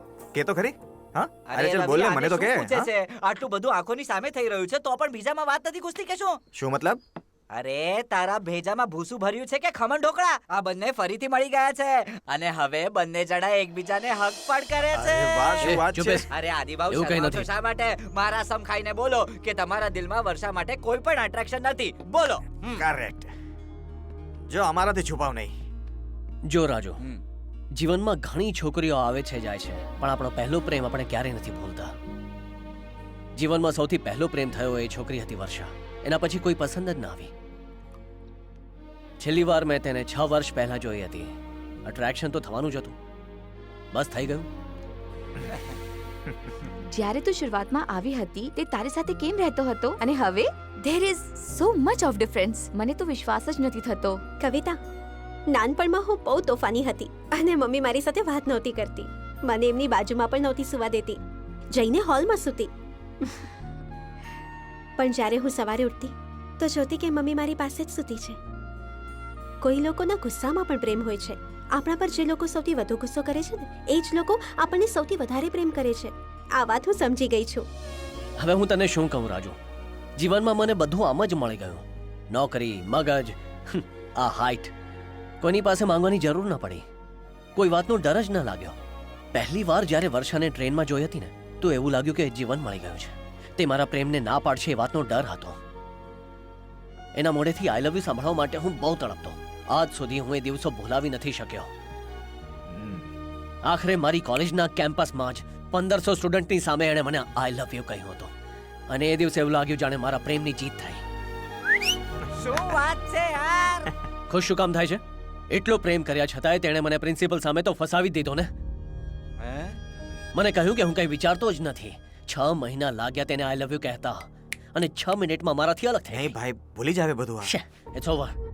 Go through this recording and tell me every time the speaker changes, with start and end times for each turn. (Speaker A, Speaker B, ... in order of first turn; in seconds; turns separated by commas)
Speaker A: 0.3-2.9, Speaker B: 1.5-6.4, Speaker A: 6.5-7.0, Speaker B: 7.5-22.8, Speaker A: 14.9-16.3, Speaker C: 15.6-16.3, Speaker C: 16.9-17.5, Speaker A: 22.7-23.3, Speaker A: 24.5-25.5, Speaker C: 26.5-27.0, Speaker C: 27.7-31.9, Speaker C: 33.4-37.3, Speaker C: 39.2-41.3, Speaker C: 41.8-43.0, Speaker C: 43.9-44.5, Speaker D: 46.9-54.2, Speaker E: 54.4-54.8, Speaker E: 55.5-61.2, Speaker E: 61.7-62.7, Speaker E: 65.0-68.4, Speaker E: 69.6-77.7, Speaker C: 78.4-79.6, Speaker C: 80.2-84.7, Speaker C: 85.4-86.8, Speaker C: 87.5-88.8, Speaker C: 89.3-95.6, Speaker C: 97.2-101.7, Speaker A: 102.7-103.1, Speaker C: 103.6-108.3, Speaker C: 108.9-111.0, Speaker B: 112.4-113.9, Speaker C: 114.3-118.5, Speaker B: 119.4-119.8, Speaker C: 120.3-126.3, Speaker A: 126.1-127.5, Speaker C: 127.4-128.3